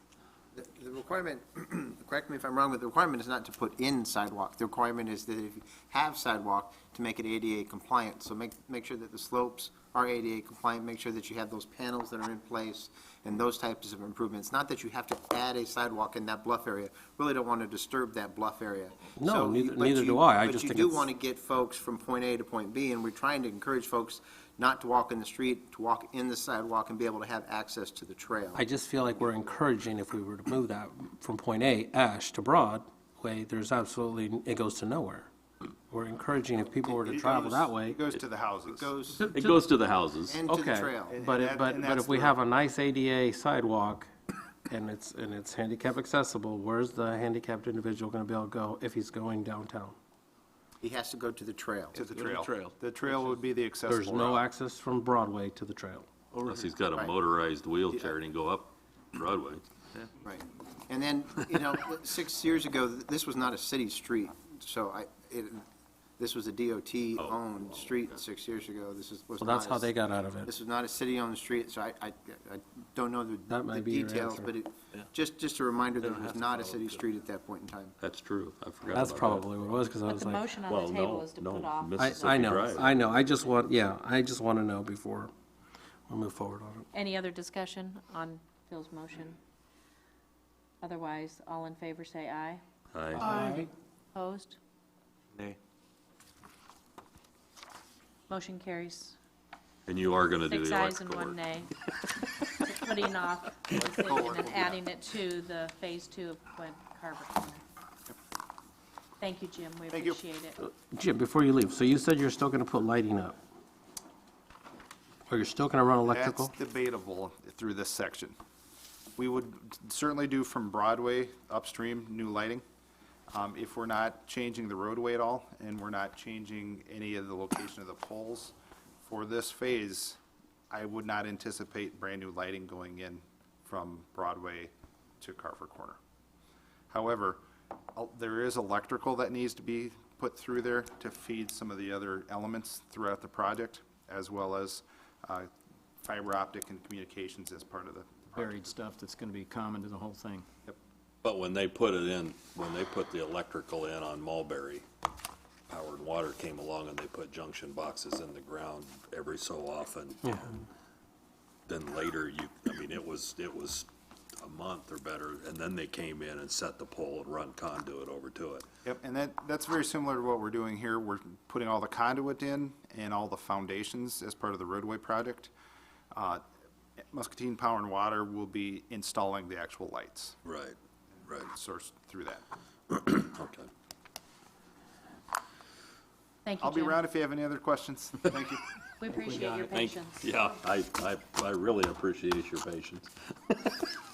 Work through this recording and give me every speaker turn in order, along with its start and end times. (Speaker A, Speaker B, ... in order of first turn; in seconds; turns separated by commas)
Speaker A: 0.6-28.6, Speaker B: 19.2-21.1, Speaker B: 28.6-35.3, Speaker B: 35.9-38.0, Speaker C: 36.8-38.9, Speaker A: 38.7-39.3, Speaker B: 39.2-39.6, Speaker D: 39.3-40.4, Speaker A: 40.3-41.2, Speaker B: 40.5-44.1, Speaker C: 41.1-42.4, Speaker B: 44.7-50.0, Speaker A: 50.8-52.0, Speaker C: 51.9-54.4, Speaker E: 52.1-52.7, Speaker B: 53.9-56.1, Speaker D: 56.4-59.6, Speaker A: 60.2-65.6, Speaker A: 66.2-69.9, Speaker B: 69.4-70.5, Speaker A: 70.5-78.0, Speaker B: 73.5-74.5, Speaker D: 78.0-79.5, Speaker B: 78.9-80.5, Speaker F: 80.0-82.1, Speaker D: 80.7-82.9, Speaker B: 82.0-85.3, Speaker B: 86.1-86.9, Speaker F: 86.9-89.4, Speaker F: 90.8-92.6, Speaker D: 92.9-93.3, Speaker B: 93.2-93.7, Speaker F: 94.1-94.6, Speaker F: 98.3-99.2, Speaker D: 99.9-101.4, Speaker F: 100.4-101.7, Speaker F: 102.6-107.6, Speaker C: 103.8-104.8, Speaker F: 109.2-110.6, Speaker C: 109.9-110.2, Speaker B: 110.6-113.4, Speaker B: 115.3-116.5, Speaker C: 116.1-118.3, Speaker C: 119.2-122.6, Speaker C: 123.3-130.2, Speaker C: 130.7-136.0, Speaker C: 136.9-137.4, Speaker C: 137.9-145.5, Speaker C: 146.1-148.6, Speaker E: 148.3-150.5, Speaker D: 151.2-154.9, Speaker D: 155.7-160.4, Speaker B: 160.2-160.6, Speaker D: 161.7-163.9, Speaker D: 164.4-168.7, Speaker C: 168.8-175.5, Speaker C: 176.1-176.4, Speaker C: 177.1-180.4, Speaker D: 180.4-181.5, Speaker C: 181.3-182.4, Speaker D: 182.9-183.7, Speaker F: 186.4-187.0, Speaker C: 186.6-188.6, Speaker F: 189.0-190.3, Speaker D: 189.7-193.9